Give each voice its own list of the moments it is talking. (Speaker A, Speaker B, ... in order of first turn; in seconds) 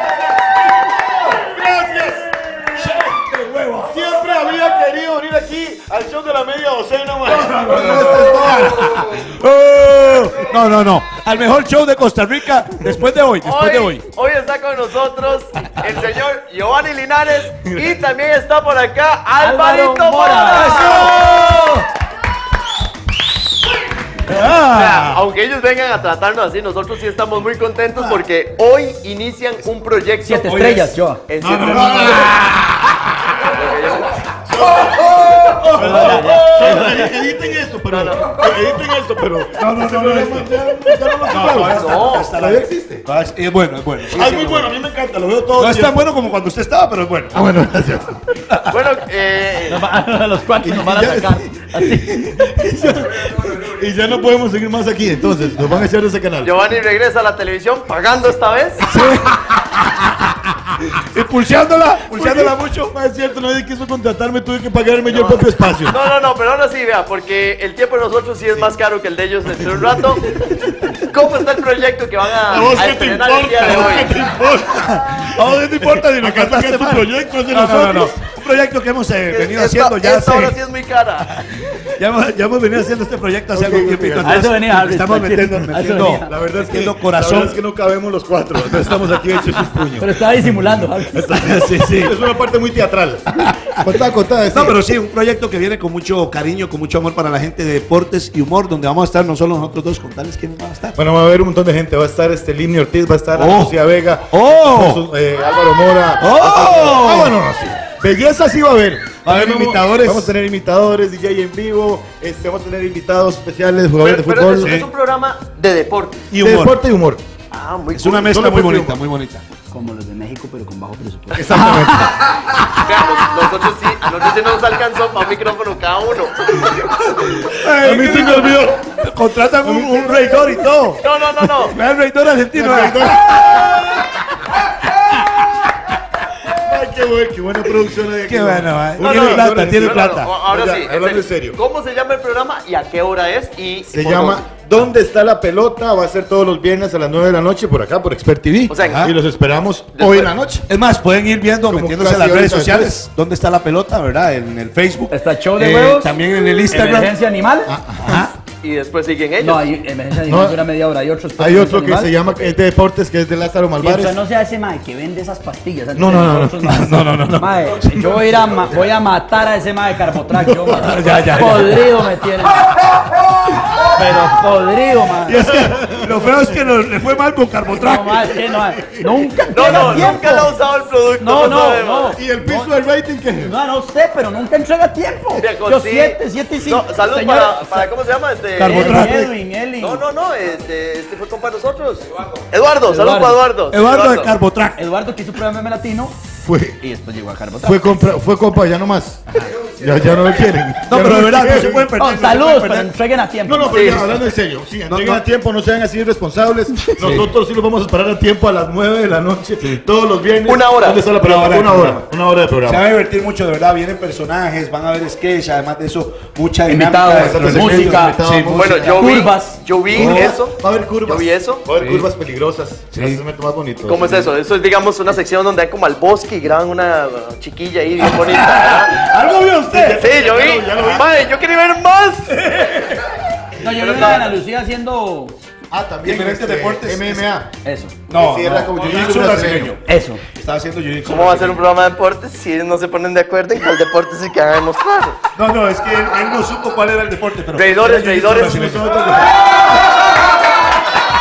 Speaker A: 1.3-2.2, 3.8-8.6, 17.6-17.9, 31.4-32.7, 34.5-43.0, 44.1-46.1, 47.3-48.3, 50.6-56.5, 62.1-66.0, 72.5-78.1, 83.5-84.5, 86.2-94.8, 101.0-114.7, 116.3-117.2, 118.2-119.0, 121.3-122.5, 127.8-128.8, 129.6-130.4, 132.5-133.7, 136.5-141.6, 143.9-150.7, 151.7-153.0, 157.7-158.3, 160.2-160.6, 161.4-164.2, 165.9-167.0, 170.4-170.9, 175.4-175.9, 182.1-183.5, 196.3-196.8, 197.6-201.9, 203.4-212.8, 217.1-218.8, 219.9-224.3, 229.7-231.1, 235.7-237.5, 238.1-239.7, 248.4-249.3
Speaker B: 2.7-4.0, 7.3-14.0, 20.5-21.8, 24.3-25.2, 27.9-28.2, 30.5-30.9, 31.4-32.7, 35.4-36.1, 39.6-44.7, 45.5-47.5, 58.8-60.3, 60.9-62.9, 74.8-80.6, 81.3-87.6, 91.3-92.1, 93.4-93.8, 94.5-101.0, 103.3-103.7, 104.3-105.0, 106.2-107.4, 109.2-110.3, 114.6-114.9, 116.3-116.8, 117.9-119.4, 121.5-122.1, 126.7-134.0, 138.3-140.3, 148.8-149.1, 150.7-157.1, 158.0-158.3, 166.7-167.7, 170.7-171.8, 175.3-178.4, 179.7-180.0, 188.6-189.3, 193.7-194.8, 200.8-202.9, 204.9-205.2, 207.0-207.3, 211.1-212.0, 212.7-219.2, 219.9-220.3, 221.7-222.1, 222.9-223.2, 228.0-230.0, 236.0-237.3, 238.1-239.8, 240.3-241.6, 245.3-249.2
Speaker C: 13.4-21.4, 24.7-32.2, 33.4-34.2, 35.8-36.9, 37.9-38.3, 41.5-42.4, 48.7-49.8, 56.4-58.9, 65.1-70.2, 71.0-74.1, 79.3-81.4, 114.0-116.2, 117.5-118.3, 122.8-126.5, 131.0-131.8, 139.0-144.4, 148.7-149.1, 149.9-150.3, 158.6-159.7, 179.5-182.2, 185.4-189.1, 189.8-194.3, 203.7-204.1, 210.4-211.0, 218.5-221.6, 223.8-229.1, 230.0-232.9, 233.6-234.3, 241.0-245.2, 247.5-248.6
Speaker D: 19.4-21.1, 30.2-31.2, 35.6-37.0, 49.7-52.5, 84.2-86.3, 90.0-91.7, 119.7-121.9, 155.1-156.2, 156.7-157.7, 159.4-162.1, 163.8-172.8, 173.8-175.4, 177.7-180.5, 181.2-182.7, 183.4-187.9, 188.6-190.0, 192.8-193.4, 194.7-196.2, 196.8-198.1, 202.0-204.2, 216.7-218.2, 219.0-219.6, 233.6-235.3, 237.6-237.9, 239.8-240.2